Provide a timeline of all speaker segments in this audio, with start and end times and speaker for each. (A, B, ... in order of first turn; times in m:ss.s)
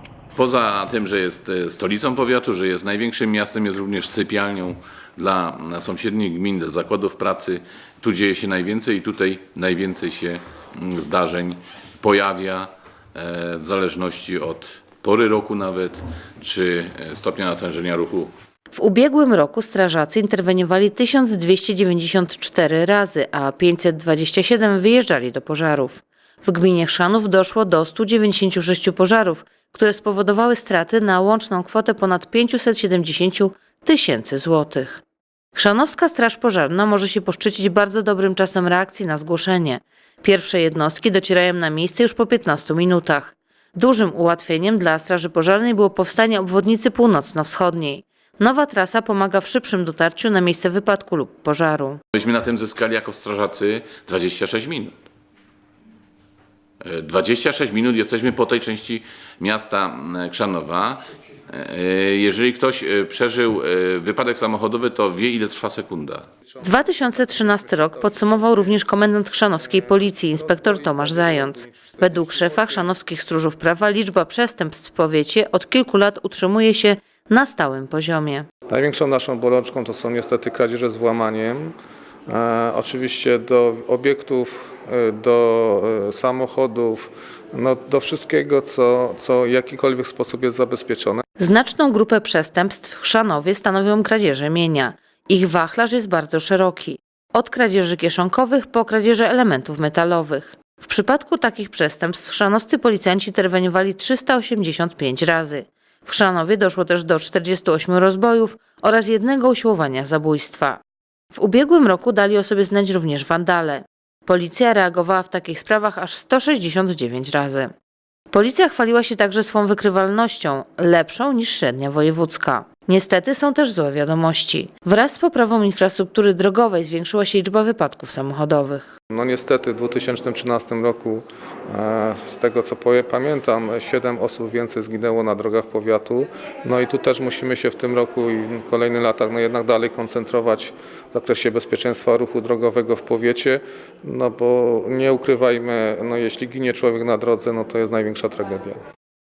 0:00.4-0:18.3 A
0:18.7-0:35.0 B
0:35.6-0:52.0 B
0:52.2-0:55.0 A
0:56.8-1:06.3 A
1:06.5-1:08.8 C
1:06.6-1:18.5 B
1:09.7-1:12.9 C
1:18.7-1:21.7 C
1:22.3-1:31.2 C
1:31.4-1:50.8 B
1:51.3-1:57.7 B
1:58.3-2:08.9 B
2:09.1-2:28.8 C